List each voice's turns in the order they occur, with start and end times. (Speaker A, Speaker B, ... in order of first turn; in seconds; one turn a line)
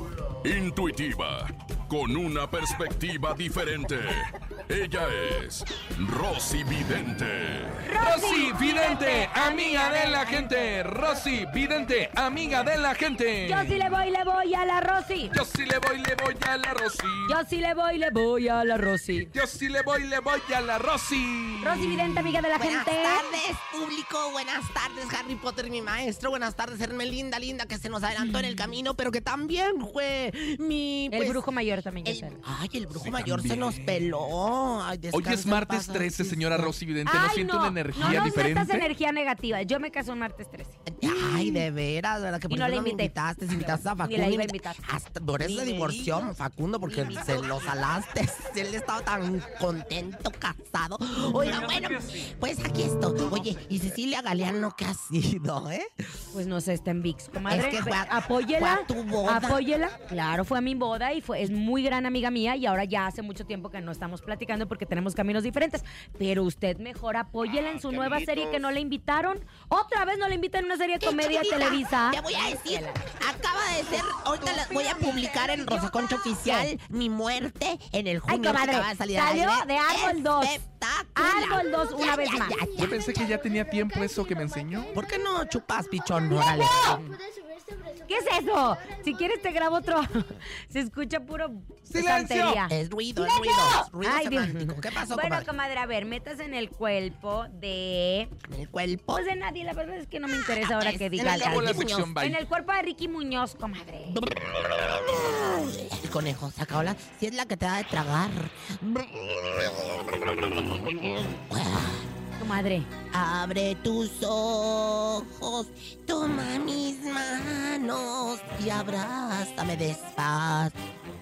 Speaker A: 0.4-7.8
Speaker B: 7.9-10.8
Speaker C: 8.0-13.9
Speaker B: 13.4-15.3
Speaker C: 15.3-17.4
Speaker B: 17.2-19.3
Speaker C: 19.3-22.4
Speaker B: 21.6-23.3
Speaker D: 22.5-31.4
Speaker B: 31.1-32.4
Speaker D: 32.0-36.7
Speaker C: 33.0-34.0
Speaker C: 35.1-38.9
Speaker B: 37.0-40.8
Speaker D: 40.9-55.9
Speaker B: 42.5-44.8
Speaker B: 45.4-46.1
Speaker B: 56.3-73.0
Speaker D: 57.5-59.6
Speaker D: 71.0-83.0
Speaker B: 74.4-76.7
Speaker B: 78.3-80.6
Speaker B: 81.2-82.6
Speaker C: 82.7-84.9
Speaker D: 84.9-87.0
Speaker B: 86.8-87.2
Speaker B: 88.0-98.3
Speaker C: 91.9-92.6
Speaker D: 92.7-95.5
Speaker D: 98.4-99.2
Speaker B: 99.1-104.2
Speaker D: 100.3-102.1
Speaker C: 101.2-102.4
Speaker D: 104.1-112.1
Speaker B: 112.4-112.9
Speaker D: 113.1-120.8